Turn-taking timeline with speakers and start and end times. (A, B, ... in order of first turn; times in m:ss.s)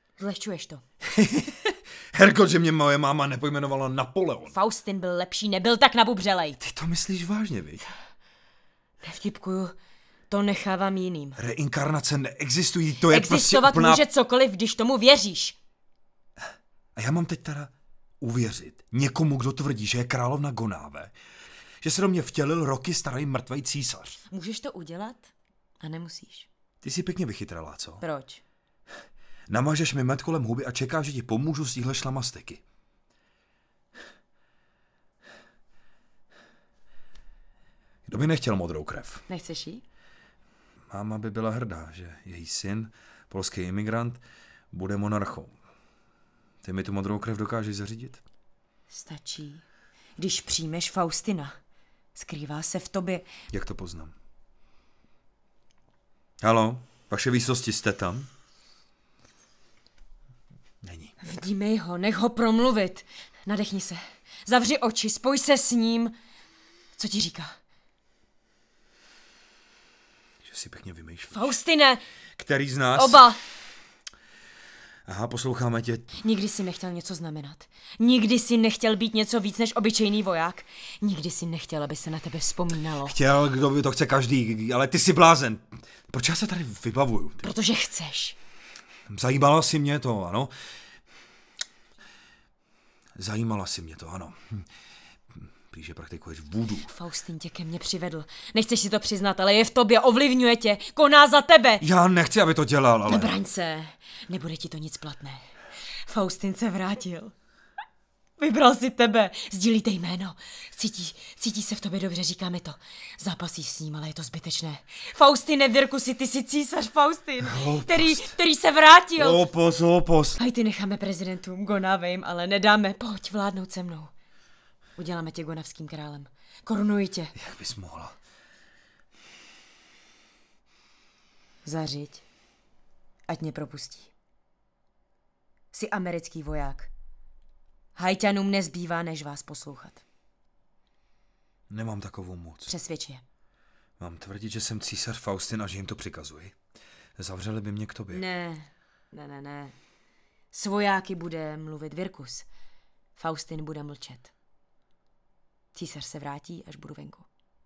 0:00.2-0:00.8 A
0:01.0-0:04.5 B
0:04.5-0:06.6 A
0:06.6-0:07.8 B
0:09.0-0:09.7 A
0:10.3-0:11.4 A
0:11.4-0:14.0 B
0:13.0-0:15.6 A
0:16.9-0:21.1 B
0:21.8-0:24.2 B
0:24.3-0:26.5 A
0:26.8-0:28.0 B
0:28.0-0:28.4 A
0:29.5-0:32.6 B
0:38.0-0:39.2 B
0:39.3-0:39.8 A
0:40.9-0:45.6 B
0:46.6-0:48.2 B
0:48.9-0:49.6 A
0:50.2-0:51.5 A
0:52.1-0:53.3 A
0:53.5-0:54.1 B
0:56.4-0:58.3 B
1:00.8-1:01.2 B
1:01.2-1:06.1 A
1:07.0-1:07.6 A
1:10.4-1:11.5 B
1:11.3-1:12.0 A
1:12.4-1:13.2 B
1:12.9-1:13.4 A
1:15.0-1:16.1 B
1:16.2-1:23.2 A
1:23.0-1:27.5 B
1:27.4-1:28.4 A
1:29.1-1:30.5 B
1:33.2-1:34.7 B
1:35.4-1:36.9 B
1:36.8-1:41.8 A
1:41.8-1:43.4 B
1:43.1-1:45.5 A
1:46.0-1:47.3 A
1:48.4-1:59.5 A
1:57.4-1:58.4 B
1:59.2-2:00.4 B
2:00.4-2:04.1 A
2:05.0-2:07.3 A
2:07.4-2:08.2 B
2:11.6-2:12.2 A
2:13.3-2:14.1 A
2:15.7-2:16.9 A
2:18.0-2:20.0 A
2:21.7-2:22.7 B
2:22.6-2:23.2 A
2:24.0-2:26.5 B
2:27.2-2:28.2 B
2:28.1-2:29.8 A
2:30.5-2:32.5 A
2:33.2-2:34.3 A
2:35.7-2:37.3 A